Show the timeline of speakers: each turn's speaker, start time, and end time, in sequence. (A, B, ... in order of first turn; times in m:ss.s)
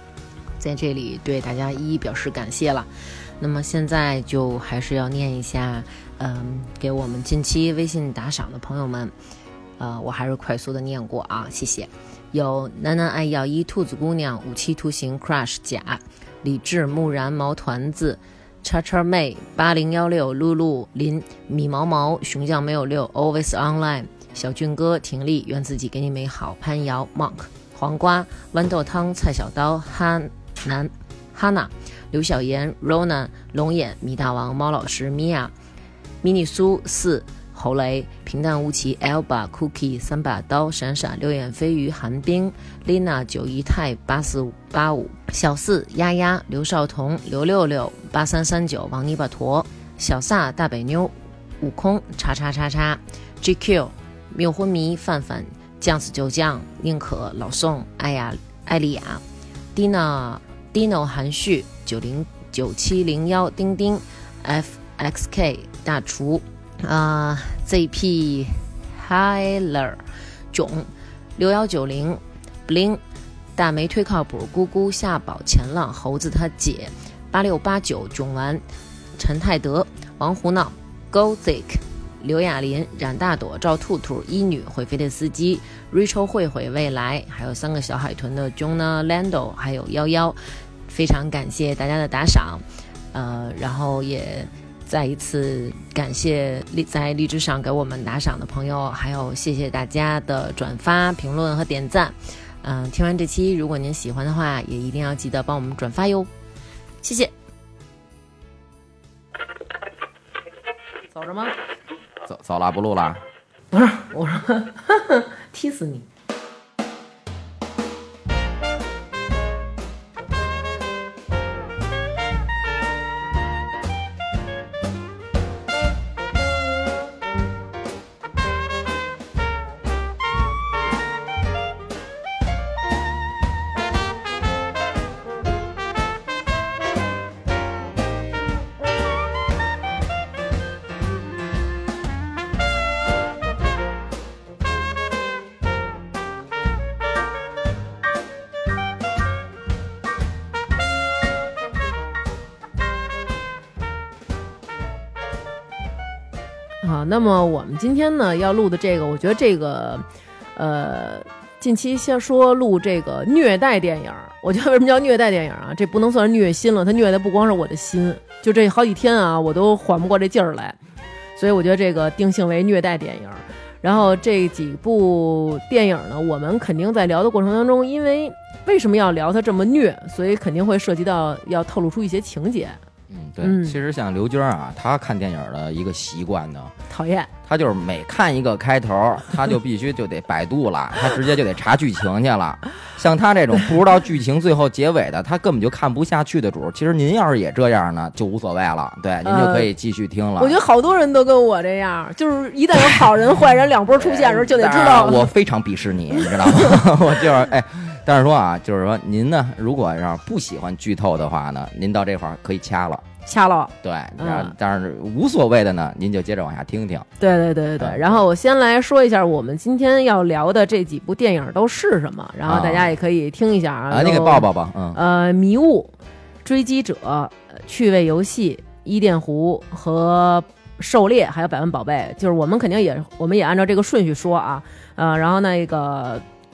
0:00.6-0:02.9 A
0:03.4-0:09.1 A
0:09.8-0:35.5 A
0:36.2-0:59.2 A
0:59.8-1:10.0 A
1:10.5-1:13.0 A
1:13.6-1:18.6 A
1:19.2-1:30.4 A
1:30.9-1:32.6 A
1:33.1-1:46.3 A
1:47.0-1:47.3 A
1:51.1-1:51.5 B
1:52.2-1:53.2 C
1:53.7-1:56.0 B
2:36.8-2:40.0 B
2:40.6-2:50.8 B
2:51.4-3:02.8 B
3:03.1-3:06.7 C
3:03.4-3:03.8 B
3:06.9-3:07.3 B
3:07.4-3:20.6 C
3:19.2-3:19.7 B
3:20.4-3:25.3 B
3:23.9-3:33.1 C
3:26.1-3:26.9 B
3:33.2-3:34.6 B
3:33.8-3:37.1 C
3:37.2-3:45.9 B
3:37.8-3:38.2 C
3:42.4-3:42.9 C
3:43.9-3:45.0 C
3:46.4-3:56.2 B